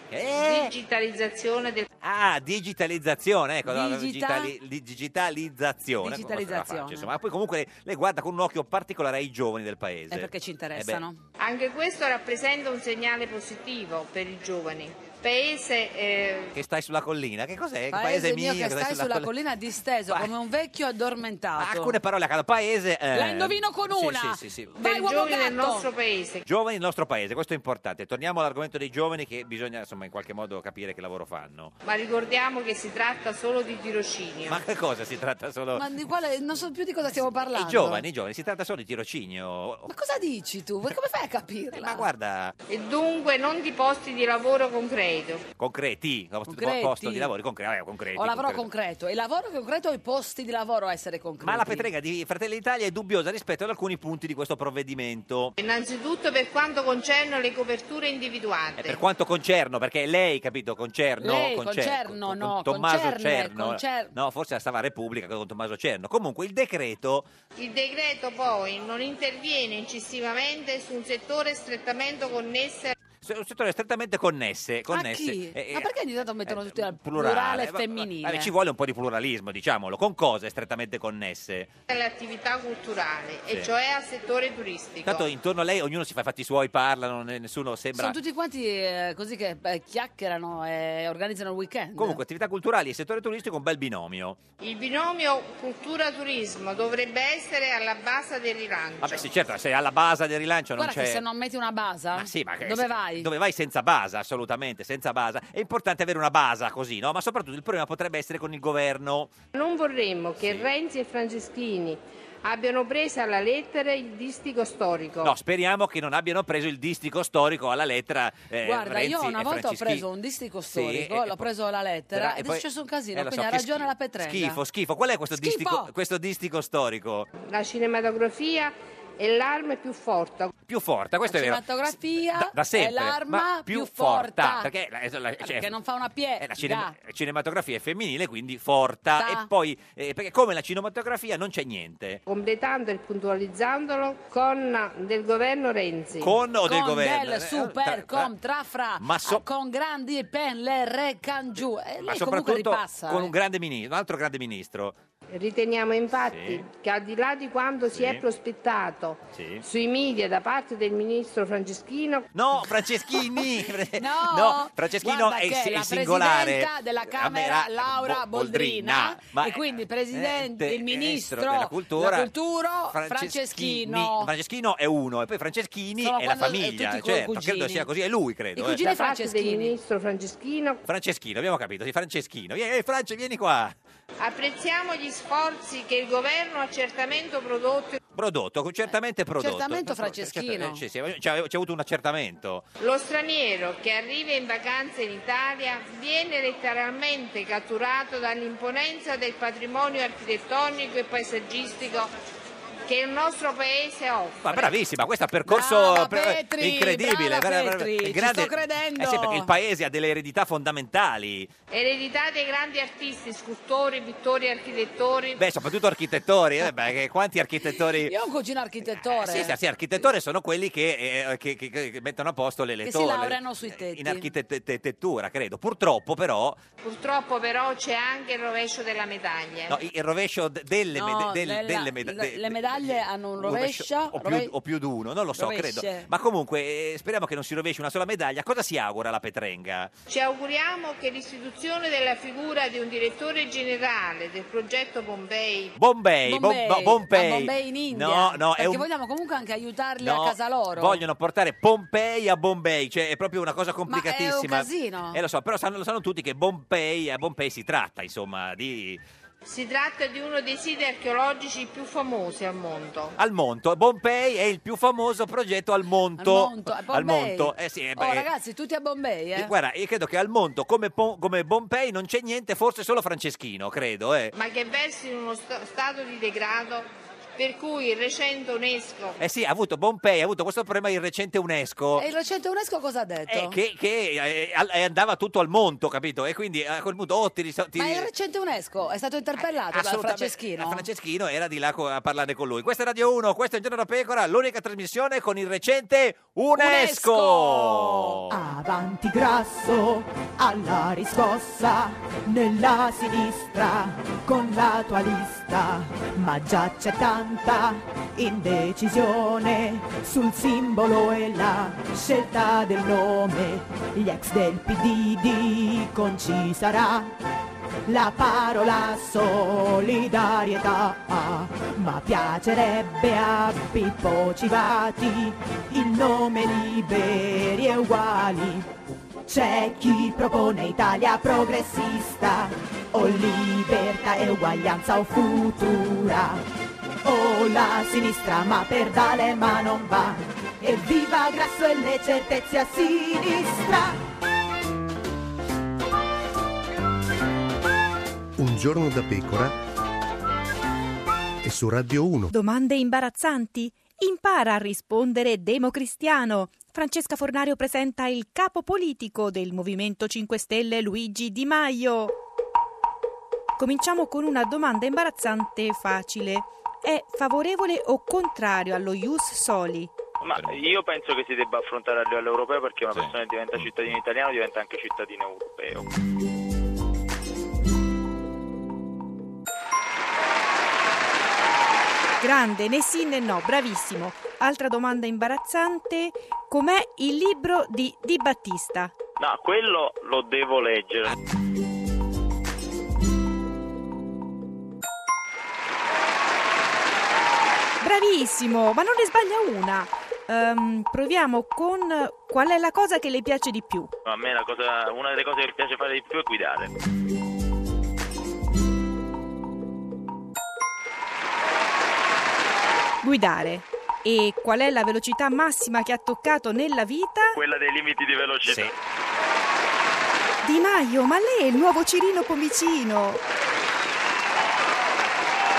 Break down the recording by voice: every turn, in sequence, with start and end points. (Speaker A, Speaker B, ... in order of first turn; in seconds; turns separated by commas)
Speaker A: 0.1-0.7, Speaker B: 0.3-1.9, Speaker A: 2.0-11.0, Speaker C: 3.7-4.5, Speaker C: 6.0-7.1, Speaker C: 10.1-11.2, Speaker B: 11.4-16.5, Speaker A: 16.5-19.3, Speaker C: 17.9-21.9, Speaker A: 21.6-24.8, Speaker C: 23.1-25.9, Speaker B: 24.8-26.4, Speaker A: 26.4-31.8, Speaker B: 31.9-34.6, Speaker A: 34.5-35.9, Speaker C: 35.8-38.0, Speaker A: 37.5-39.9, Speaker C: 39.9-42.1, Speaker A: 41.8-42.5, Speaker B: 42.7-45.4, Speaker A: 45.6-48.7, Speaker C: 46.5-47.3, Speaker C: 48.2-51.9, Speaker A: 51.4-55.5, Speaker B: 55.6-59.0, Speaker A: 58.8-67.3, Speaker C: 61.2-64.1, Speaker B: 67.6-73.0, Speaker A: 73.2-75.9, Speaker C: 74.9-78.5, Speaker A: 76.5-81.7, Speaker B: 81.9-85.3, Speaker A: 85.0-88.2, Speaker C: 88.0-92.2, Speaker A: 92.0-94.4, Speaker B: 94.6-99.2, Speaker A: 99.0-101.2, Speaker C: 100.8-103.3, Speaker A: 102.2-109.3, Speaker B: 109.5-115.3, Speaker A: 110.4-110.7, Speaker A: 115.2-120.0, Speaker C: 118.6-124.6, Speaker A: 120.7-121.5, Speaker A: 122.1-127.3, Speaker C: 125.3-125.9, Speaker B: 127.5-130.5, Speaker A: 130.7-135.7, Speaker C: 131.3-134.7, Speaker C: 135.4-136.9, Speaker A: 136.4-142.2, Speaker C: 139.2-139.5, Speaker B: 142.3-146.3, Speaker A: 146.2-148.3, Speaker C: 146.7-153.3, Speaker A: 149.0-149.4, Speaker A: 152.0-154.9, Speaker B: 155.3-162.3, Speaker A: 156.3-156.7, Speaker A: 157.9-158.2, Speaker A: 159.3-159.6, Speaker A: 162.3-172.3, Speaker C: 163.9-174.3, Speaker A: 172.9-178.8, Speaker C: 176.0-177.9, Speaker C: 178.6-179.7, Speaker B: 178.8-180.8, Speaker A: 180.9-183.8, Speaker B: 184.2-188.0, Speaker A: 188.1-192.7, Speaker C: 189.4-190.8, Speaker B: 192.8-202.1, Speaker B: 202.9-204.7, Speaker A: 204.4-211.5, Speaker C: 205.5-209.5, Speaker B: 211.7-215.4, Speaker A: 215.4-218.1, Speaker C: 217.8-219.6, Speaker A: 218.9-226.6, Speaker C: 222.8-224.3, Speaker B: 226.8-229.8, Speaker A: 229.7-239.9, Speaker C: 230.9-234.5, Speaker C: 235.3-236.1, Speaker B: 240.1-245.8, Speaker A: 245.8-248.9, Speaker C: 246.3-251.0, Speaker A: 250.0-259.0, Speaker C: 253.9-255.2, Speaker B: 259.4-263.1, Speaker A: 263.2-268.3, Speaker C: 266.2-269.5, Speaker A: 269.4-274.4, Speaker B: 274.4-276.9, Speaker B: 277.4-279.2, Speaker A: 279.2-282.1, Speaker C: 282.0-283.6, Speaker A: 283.3-288.1, Speaker C: 287.8-290.8, Speaker A: 289.7-298.4, Speaker C: 296.6-298.2, Speaker D: 298.3-317.1, Speaker D: 317.9-328.7, Speaker D: 329.3-336.4, Speaker D: 337.0-344.0, Speaker E: 348.4-349.6, Speaker E: 351.4-352.3, Speaker F: 352.3-362.1, Speaker F: 363.6-369.9, Speaker G: 370.2-375.9, Speaker A: 370.2-370.8, Speaker A: 372.9-373.8, Speaker F: 382.2-388.9, Speaker G: 389.2-391.1, Speaker F: 397.8-403.9, Speaker G: 404.1-406.7, Speaker F: 413.0-417.4, Speaker G: 417.4-418.7, Speaker A: 418.5-418.7, Speaker F: 420.4-423.2